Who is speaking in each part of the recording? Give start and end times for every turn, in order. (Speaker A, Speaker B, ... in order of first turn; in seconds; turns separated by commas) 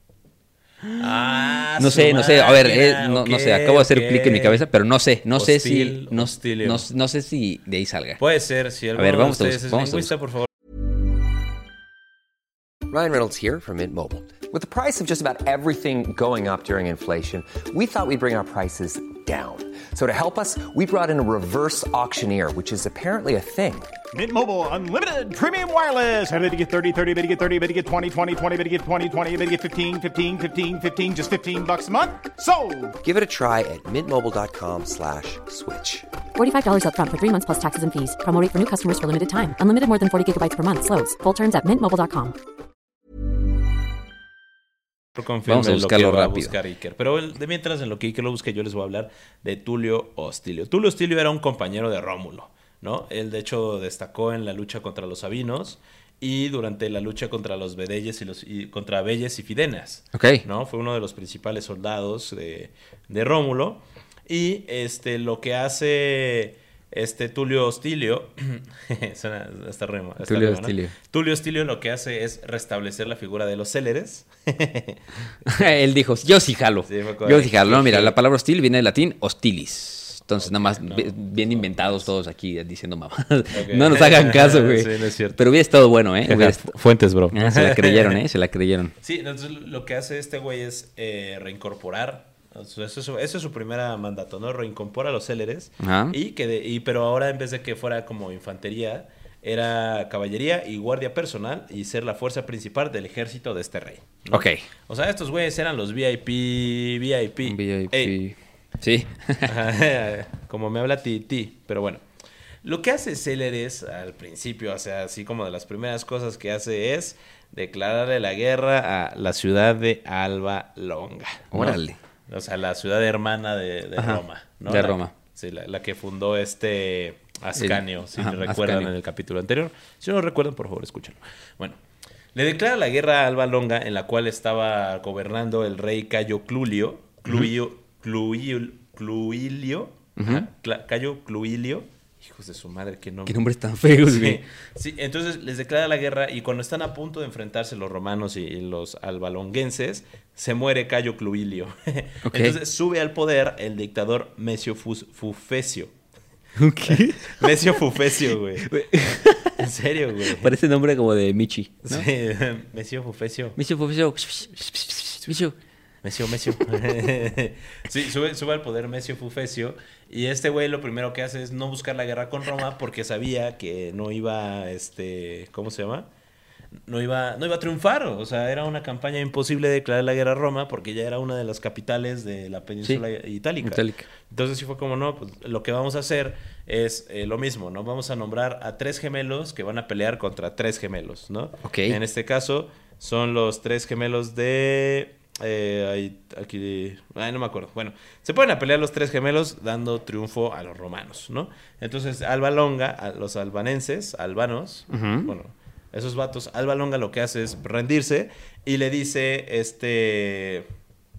Speaker A: 0.9-4.6, Speaker B: 1.8-8.2, Speaker A: 5.4-6.9, Speaker A: 8.2-10.5, Speaker B: 8.9-10.1, Speaker C: 12.9-23.9, Speaker D: 24.1-33.0, Speaker C: 33.0-36.0, Speaker E: 36.4-42.4, Speaker A: 45.2-75.7, Speaker B: 45.5-46.5, Speaker B: 60.1-60.5, Speaker B: 70.2-71.0, Speaker B: 75.5-86.7, Speaker A: 76.9-78.2, Speaker A: 80.4-82.1, Speaker A: 83.5-85.4, Speaker A: 86.2-88.2, Speaker B: 87.3-89.0, Speaker A: 89.0-108.2, Speaker B: 95.8-96.2, Speaker B: 104.3-104.6, Speaker B: 107.5-109.6, Speaker A: 109.4-112.0, Speaker A: 112.6-131.8, Speaker B: 121.5-122.0, Speaker B: 124.0-125.1, Speaker B: 127.6-128.9, Speaker A: 132.3-155.9, Speaker B: 140.2-140.5, Speaker B: 143.3-144.4, Speaker B: 152.2-152.6, Speaker B: 156.6-157.6, Speaker A: 156.9-160.6, Speaker B: 158.6-159.6, Speaker B: 160.3-162.1, Speaker A: 161.8-163.6, Speaker B: 163.6-165.6, Speaker A: 166.0-176.1, Speaker A: 176.9-210.7, Speaker B: 183.6-184.1, Speaker B: 191.7-192.0, Speaker B: 204.9-205.3